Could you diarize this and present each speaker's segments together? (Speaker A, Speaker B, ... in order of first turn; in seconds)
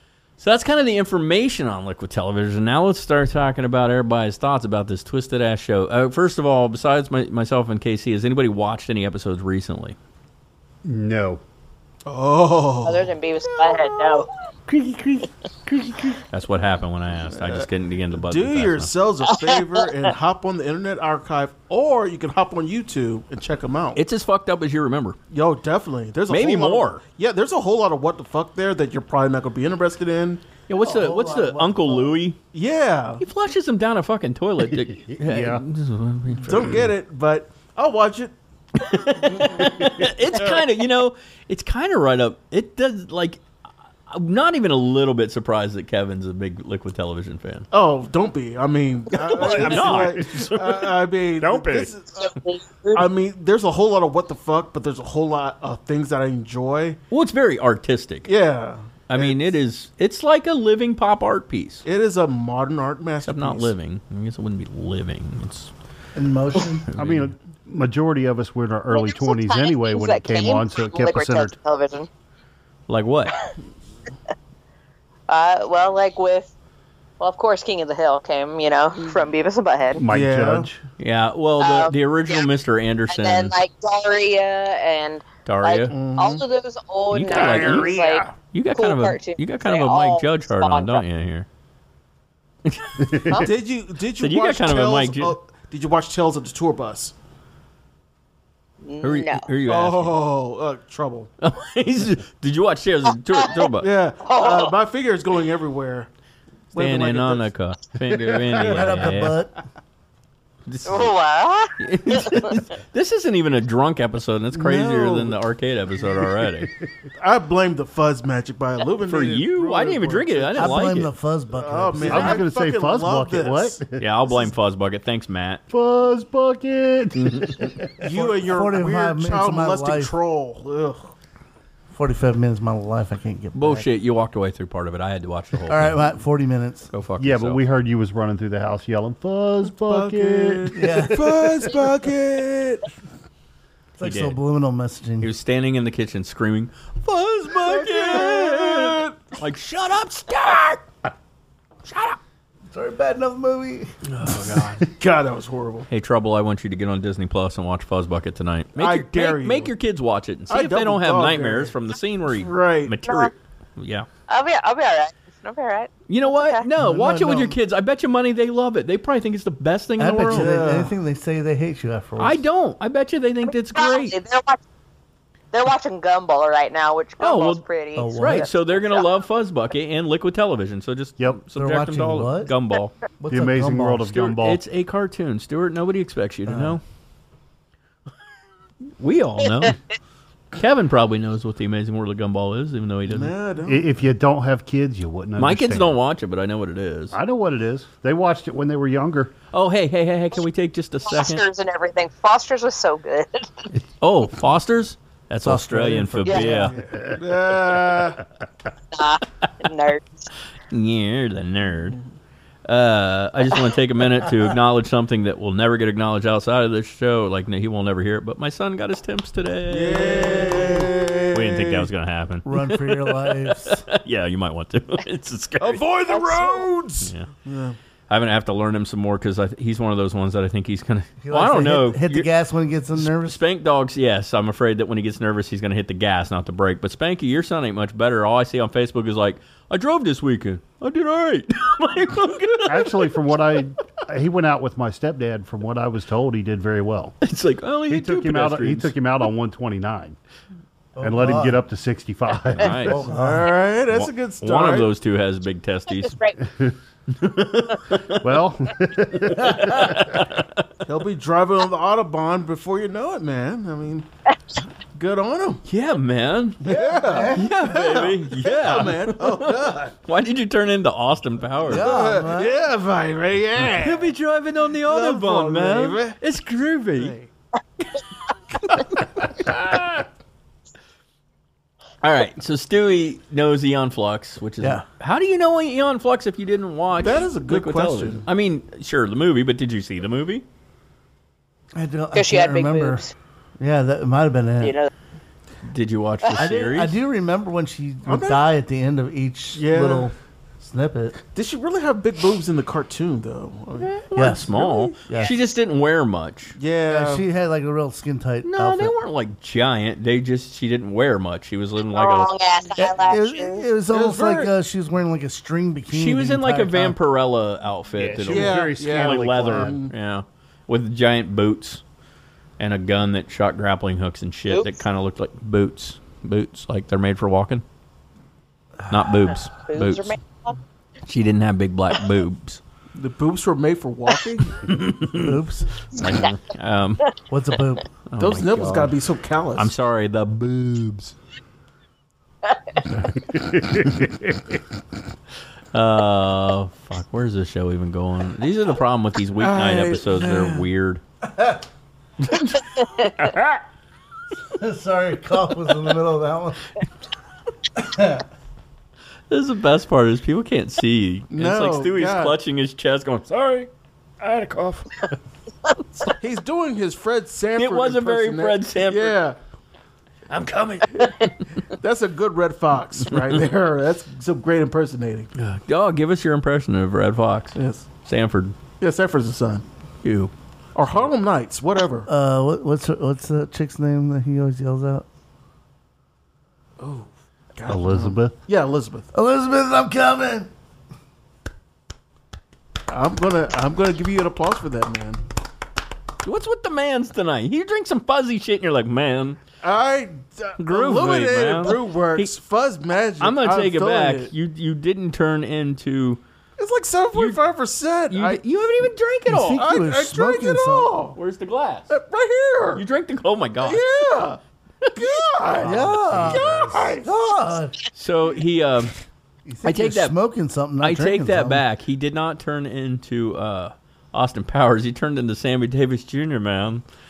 Speaker A: 0.4-10.0, 16.3-18.9, 23.9-25.2, 26.3-27.0, 30.7-32.4, 33.2-36.7, 38.8-43.4, 44.1-47.7, 49.1-50.9, 57.1-58.3, 59.1-61.8, 63.2-65.7, 66.9-67.3, 72.9-73.4, 81.0-83.5, 85.4-86.0, 87.1-87.9, 88.4-91.5, 92.6-93.4, 94.2-95.4, 99.0-100.2, 101.4-103.9, 106.8-109.4, 110.7-111.1, 111.8-116.7, 119.0-121.1, 124.0-125.6, 133.6-136.0, 136.9-137.6, 144.0-144.4, 145.2-150.9, 151.9-152.2, 154.1-154.9, 155.9-164.1, 166.1-170.5, 172.2-174.2, 177.2-177.6, 178.2-182.9, 184.1-186.8, 189.0-189.8, 190.6-193.3, 195.4-197.2, 199.5-201.4, 204.0-206.7, 210.7-212.0, 212.7-225.8, 227.0-227.3, 228.1-232.3, 232.9-243.2, 247.2-248.9, 252.6-253.0, 253.9-256.2, 257.1-258.2, 259.4-260.6, 265.6-271.9, 273.8-277.1, 279.4-279.8, 282.0-290.4, 295.6-296.9, 303.8-306.6, 308.4-312.3, 315.9-321.8, 322.6-327.6, 328.9-330.1, 331.1-332.6, 334.6-335.4, 335.9-337.1, 338.1-338.9, 339.6-341.1, 345.7-351.0, 352.2-352.7, 359.3-363.7, 364.2-364.8, 367.6-369.2, 370.3-371.2, 375.3-378.6, 380.0-380.3, 396.2-399.4, 400.6-402.3, 403.2-406.2, 407.1-407.4, 408.1-409.6, 411.1-411.9, 412.7-414.0, 414.8-416.5, 417.9-418.9, 419.6-420.2, 420.8-426.8
Speaker B: 10.8-11.4, 14.7-16.1, 34.7-35.6, 36.5-36.9, 39.6-40.1, 49.4-50.5, 51.4-51.9, 66.9-71.5, 79.9-80.8, 93.0-93.4, 122.1-124.3, 125.7-128.3, 137.2-141.7, 183.3-184.6, 193.6-196.0, 197.1-199.3, 206.9-207.2, 242.7-247.2, 247.9-250.2, 251.0-253.0, 258.1-260.2, 317.9-319.8, 343.3-344.5, 353.2-353.6, 387.6-388.3
Speaker C: 12.1-14.3, 17.3-24.0, 25.3-30.4, 32.5-33.2, 36.4-38.3, 39.4-39.7, 40.4-40.6, 47.7-52.3, 52.9-57.0, 58.3-59.5, 61.8-63.7, 80.1-80.7, 85.9-86.4, 87.3-88.3, 93.3-97.1, 99.7-101.3, 103.8-106.1, 106.7-107.5, 108.5-109.2, 114.5-115.4, 117.2-123.8, 128.0-131.1, 139.8-142.8, 147.6-149.2, 154.8-155.9, 158.8-159.7, 160.5-161.7, 162.3-163.0, 170.3-170.9, 193.1-193.9, 206.7-208.2, 219.7-221.9, 225.6-227.8, 253.1-254.9, 260.9-264.1, 264.9-265.6, 266.6-269.9, 271.7-274.1, 274.8-276.2, 276.9-277.3, 287.0-288.3, 298.1-298.4, 299.5-300.1, 301.3-304.0, 304.5-304.9, 306.6-307.2, 313.9-314.5, 318.2-319.9, 332.9-334.7, 338.2-339.7, 349.4-350.6, 361.3-362.4, 366.2-369.4, 371.8-375.3, 377.6-377.9, 378.8-379.6, 380.7-382.1, 386.8-389.1, 392.9-395.2, 399.6-404.3, 406.6-408.4, 409.6-411.2, 411.9-412.8, 413.6-414.4, 414.9-417.1
Speaker D: 12.8-14.3, 19.3-19.8, 52.2-53.1, 68.9-72.1, 75.3-76.5, 77.2-80.0, 81.6-82.5, 83.1-91.0, 98.8-99.5, 104.2-104.8, 110.9-112.5, 164.3-166.6, 173.7-174.6, 175.5-179.0, 201.1-203.5, 206.2-206.6, 208.9-210.3, 226.1-226.7, 256.0-256.4, 292.1-293.1, 294.6-294.9, 311.9-313.6, 329.7-330.6
Speaker E: 30.8-32.2, 66.1-66.9, 108.5-109.5, 120.6-122.4, 128.4-130.1, 131.9-133.9, 135.7-136.9, 140.7-141.3, 144.0-145.3, 152.7-153.9, 166.8-167.6, 170.0-172.4, 177.9-178.5, 181.5-182.5, 183.2-184.1, 186.4-186.8, 205.4-206.8, 222.4-223.8, 231.2-233.4, 250.9-251.6, 252.8-253.5, 266.6-267.5, 271.7-272.6, 291.7-293.0, 293.6-294.7, 296.3-301.2, 304.1-305.3, 306.9-308.9, 312.8-317.0, 335.1-335.7, 337.3-337.9, 351.3-351.6, 354.6-356.7, 357.7-358.2, 382.1-385.1, 389.1-390.5, 409.3-411.0, 415.6-417.8, 419.4-421.6